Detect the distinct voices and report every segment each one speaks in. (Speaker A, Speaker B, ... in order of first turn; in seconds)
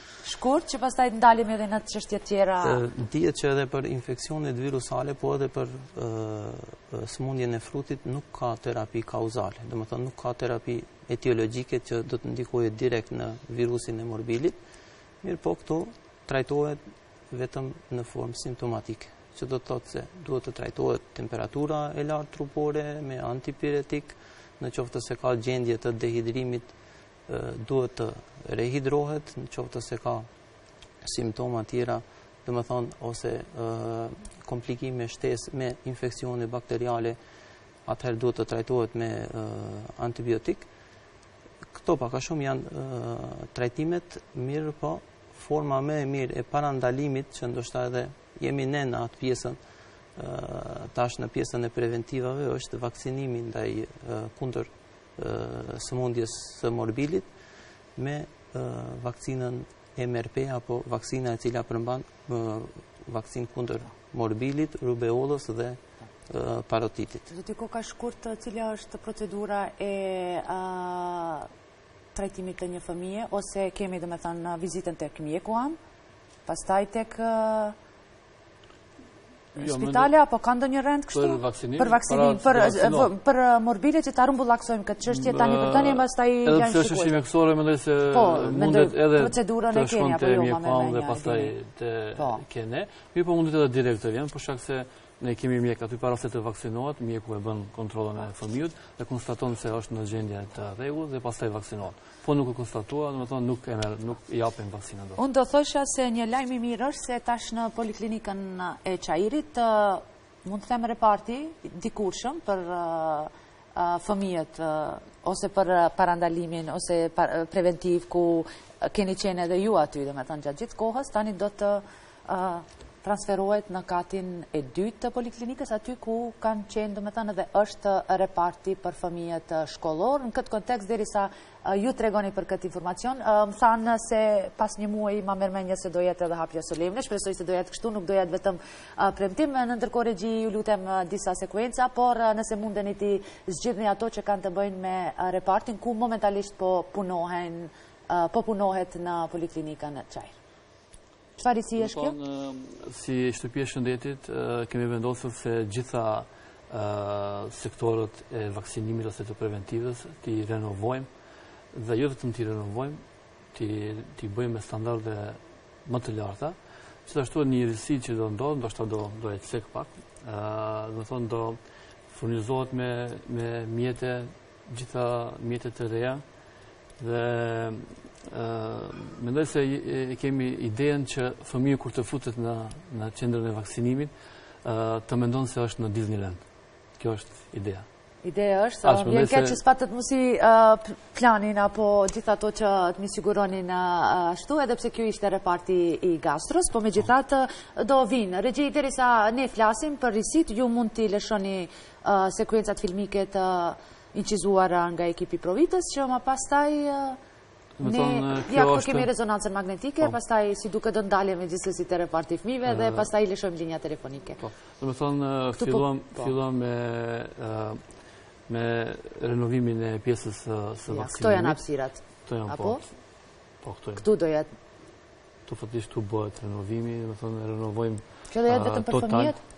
Speaker A: 0.2-2.8, 67.3-71.5, 72.1-75.8, 76.5-77.7, 79.5-87.2, 88.1-91.5, 92.2-92.4, 105.2-150.3, 151.4-152.2, 188.2-207.2, 207.8-214.4, 215.6-216.3, 220.9-222.8, 224.0-224.5, 228.3-229.4
Speaker B: 2.6-14.6, 15.2-26.7, 27.3-30.3, 31.0-37.2, 37.8-40.7, 41.7-49.6, 50.1-57.3, 58.0-67.3
Speaker C: 79.5-80.1, 81.1-83.1, 85.1-105.2, 151.8-161.1, 161.7-163.0, 163.5-171.6, 172.1-176.2, 177.0-184.1, 184.6-186.4, 187.0-187.8, 188.8-189.6, 207.8-209.1, 212.7-213.1, 214.4-217.8, 218.5-221.6, 222.2-222.9, 223.6-224.0, 225.5-229.3